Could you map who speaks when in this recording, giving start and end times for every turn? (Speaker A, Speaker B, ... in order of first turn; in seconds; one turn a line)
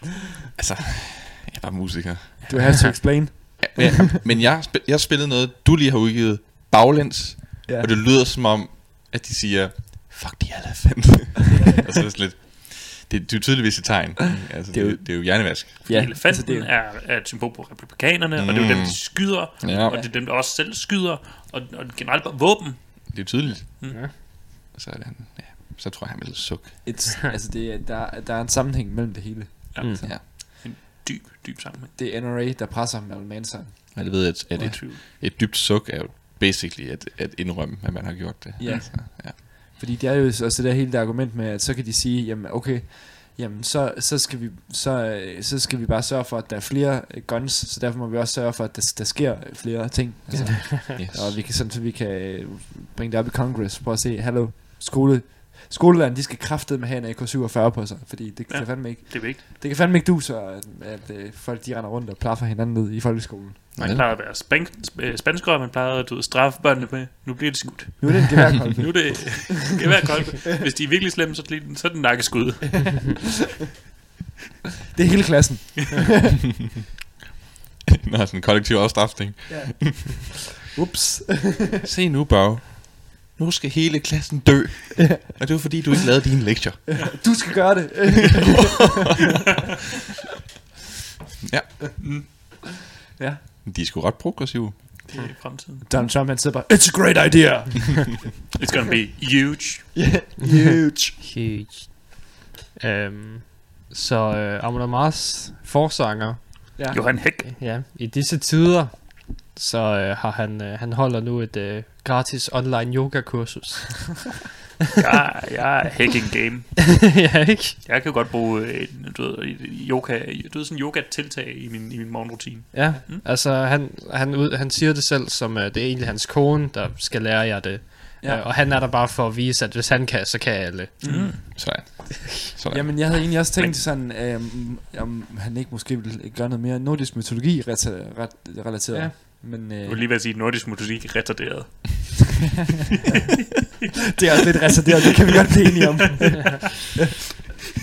Speaker A: 0.6-2.9
Speaker B: 2.5-4.0
Speaker A: 3.6-16.1
Speaker B: 14.7-16.7
Speaker C: 15.9-24.0
Speaker A: 18.4-20.0
Speaker B: 19.9-20.1
Speaker A: 23.1-26.8
Speaker B: 26.8-30.1
Speaker C: 29.7-31.9
Speaker B: 32.0-34.8
Speaker A: 33.9-39.4
Speaker C: 34.6-35.0
Speaker B: 38.6-63.7
Speaker D: 50.3-51.0
Speaker A: 51.0-51.4
Speaker C: 58.5-59.4
Speaker A: 63.8-64.1
Speaker C: 63.8-73.1
Speaker B: 68.0-69.5
Speaker B: 74.9-76.2
Speaker A: 78.0-80.3
Speaker B: 79.5-81.8
Speaker A: 81.8-87.3
Speaker B: 85.1-85.5
Speaker B: 87.0-89.2
Speaker A: 88.8-89.6
Speaker A: 91.4-92.0
Speaker C: 92.0-92.3
Speaker B: 93.2-93.4
Speaker A: 93.6-95.1
Speaker C: 95.1-95.9
Speaker B: 95.8-98.4
Speaker C: 98.6-100.1
Speaker B: 99.9-101.2
Speaker D: 101.2-107.0
Speaker B: 106.8-107.0
Speaker C: 106.9-107.5
Speaker D: 107.6-114.3
Speaker C: 115.0-116.8
Speaker D: 117.1-117.8
Speaker C: 117.8-123.2
Speaker D: 122.7-131.3
Speaker B: 128.2-128.5
Speaker B: 131.0-132.0
Speaker C: 131.0-131.4
Speaker A: 131.5-133.3
Speaker B: 132.7-140.0
Speaker C: 139.8-142.4
Speaker B: 144.2-147.1